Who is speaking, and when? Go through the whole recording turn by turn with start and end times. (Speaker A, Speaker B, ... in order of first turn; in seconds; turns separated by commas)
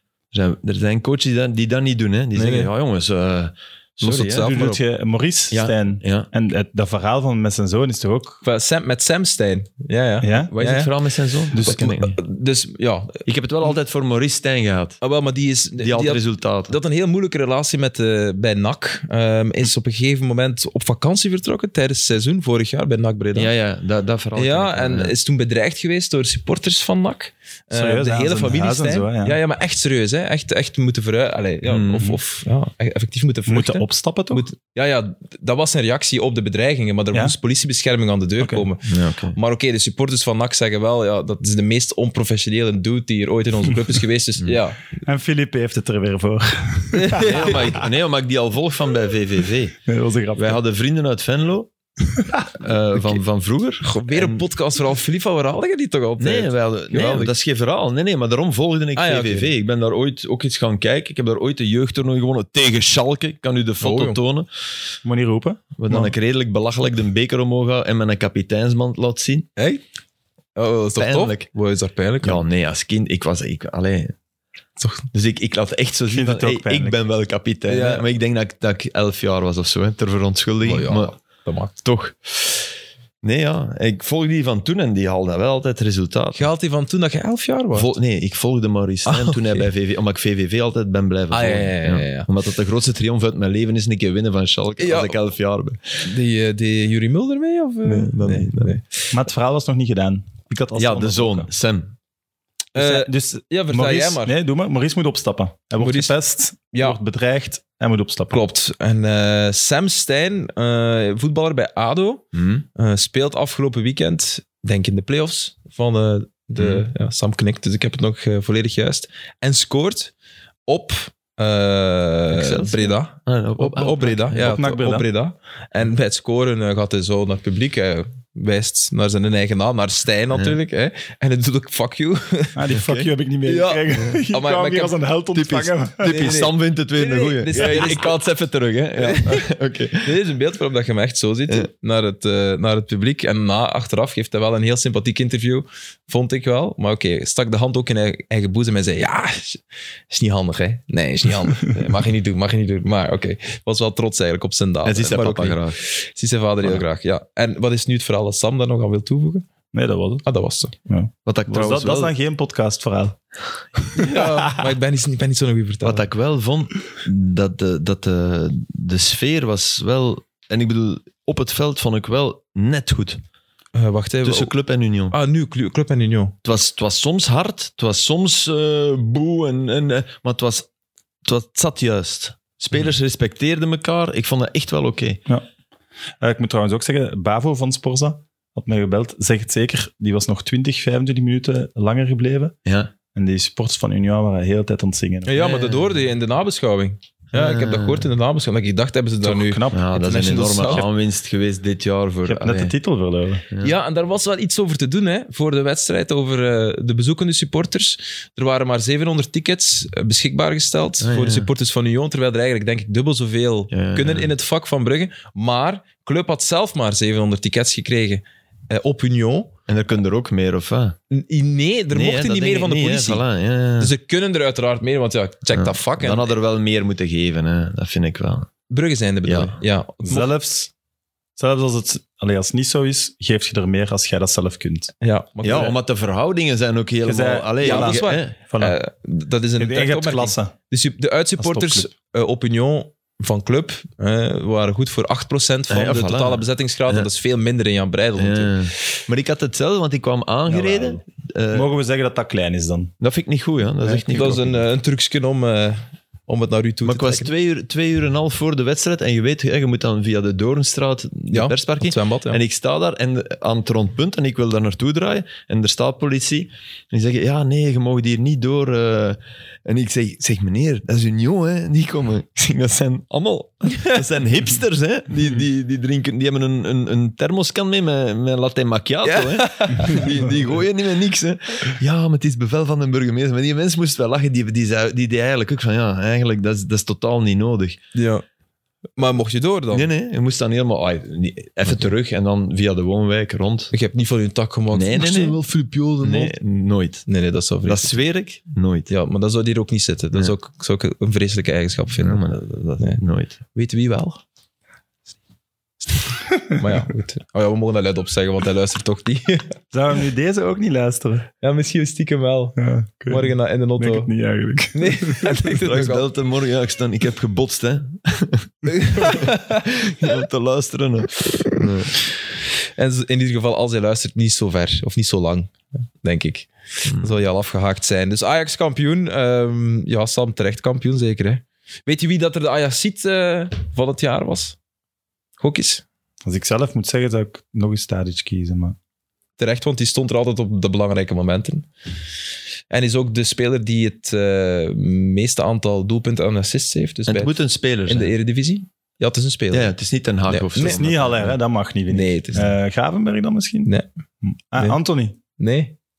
Speaker A: 0.3-4.6, Speaker B: 2.4-2.7, Speaker B: 4.0-4.8, Speaker C: 4.3-8.4, Speaker A: 5.5-6.3, Speaker B: 8.4-10.9, Speaker C: 10.2-10.5, Speaker A: 10.5-12.2, Speaker C: 11.5-12.0, Speaker B: 11.6-13.2, Speaker A: 13.2-15.0, Speaker B: 15.0-23.5, Speaker A: 15.8-16.8, Speaker A: 23.3-25.1, Speaker B: 24.3-44.9, Speaker C: 27.7-29.4, Speaker A: 31.6-32.1, Speaker C: 33.5-34.5, Speaker C: 38.4-38.6, Speaker A: 38.9-39.4, Speaker C: 45.0-47.9, Speaker B: 46.9-47.6, Speaker A: 47.2-49.8, Speaker C: 49.9-50.6, Speaker A: 50.4-51.7, Speaker C: 52.2-52.5, Speaker A: 52.5-54.4, Speaker B: 53.8-57.3, Speaker A: 56.2-64.5, Speaker B: 59.0-59.5, Speaker B: 63.8-64.2, Speaker C: 65.0-66.1, Speaker A: 65.8-69.5, Speaker B: 69.5-69.8, Speaker B: 70.5-72.4, Speaker A: 71.0-71.5, Speaker A: 72.2-74.1, Speaker A: 75.1-81.1, Speaker C: 76.1-77.0, Speaker B: 77.7-78.0, Speaker B: 80.6-81.7, Speaker A: 81.8-86.5, Speaker B: 86.3-87.9, Speaker A: 87.7-96.0, Speaker B: 89.0-89.7, Speaker B: 91.3-92.3, Speaker B: 94.8-95.2, Speaker B: 96.0-99.1, Speaker A: 97.8-98.8, Speaker C: 99.1-101.5, Speaker A: 100.8-101.9, Speaker B: 102.7-104.3, Speaker C: 102.7-108.4, Speaker B: 105.8-106.1, Speaker B: 106.7-107.0, Speaker B: 108.3-112.2, Speaker A: 112.3-112.6, Speaker B: 112.7-120.1, Speaker A: 116.6-116.8, Speaker B: 120.7-134.9, Speaker A: 122.3-124.5, Speaker C: 124.4-125.0, Speaker C: 132.5-136.3, Speaker A: 135.3-140.1, Speaker B: 136.0-138.1, Speaker B: 139.0-139.4, Speaker B: 140.0-159.5, Speaker A: 154.8-155.8, Speaker C: 159.7-160.2, Speaker B: 160.2-160.7, Speaker C: 160.8-163.2, Speaker A: 161.2-162.1, Speaker C: 163.8-164.7, Speaker B: 163.9-166.0, Speaker A: 165.8-173.2, Speaker B: 173.7-174.5, Speaker A: 174.2-175.2, Speaker B: 175.1-176.3, Speaker A: 176.4-180.7, Speaker A: 181.2-185.2, Speaker C: 186.2-192.6, Speaker A: 192.7-192.9, Speaker C: 193.1-195.4, Speaker B: 195.2-200.9, Speaker A: 195.4-195.9, Speaker A: 197.3-198.1, Speaker C: 199.2-199.9, Speaker A: 199.7-202.7, Speaker C: 202.2-203.4, Speaker A: 203.5-203.7, Speaker B: 203.6-219.5, Speaker A: 211.0-211.5, Speaker A: 213.7-214.3, Speaker A: 219.7-221.0, Speaker B: 221.1-223.2, Speaker A: 221.9-223.9, Speaker B: 223.8-226.3, Speaker A: 225.5-228.5, Speaker B: 228.7-230.3, Speaker A: 229.2-229.6, Speaker C: 230.0-230.7, Speaker C: 231.4-234.9, Speaker B: 235.0-235.8, Speaker A: 235.4-238.3, Speaker C: 237.0-238.8, Speaker B: 237.6-248.5, Speaker C: 239.6-240.5, Speaker C: 241.4-241.9, Speaker A: 245.7-247.1, Speaker A: 248.2-251.7, Speaker C: 250.5-252.9, Speaker A: 253.0-254.6, Speaker B: 254.1-257.3, Speaker A: 256.8-287.8, Speaker B: 261.3-262.4, Speaker B: 273.7-274.0, Speaker B: 279.1-280.1, Speaker B: 287.9-288.2, Speaker B: 289.0-289.9, Speaker A: 289.7-293.7, Speaker B: 293.7-296.3, Speaker A: 294.7-295.4, Speaker A: 296.0-297.1, Speaker B: 297.1-297.9, Speaker A: 297.6-298.9, Speaker B: 298.9-302.2, Speaker A: 302.0-303.4, Speaker B: 303.5-304.2, Speaker B: 305.9-309.5, Speaker C: 309.7-311.3, Speaker B: 311.4-314.1, Speaker C: 312.6-315.4, Speaker B: 314.7-316.0, Speaker A: 315.6-322.0, Speaker B: 318.7-320.2, Speaker B: 322.8-334.6, Speaker A: 326.8-327.1, Speaker B: 335.4-335.8, Speaker C: 336.2-338.8, Speaker B: 339.4-341.7, Speaker B: 342.7-347.3, Speaker A: 347.1-348.1, Speaker B: 347.9-349.7, Speaker A: 349.5-351.4, Speaker B: 350.3-350.8, Speaker C: 350.6-353.7, Speaker B: 351.9-352.5, Speaker C: 354.2-355.2, Speaker B: 355.4-355.7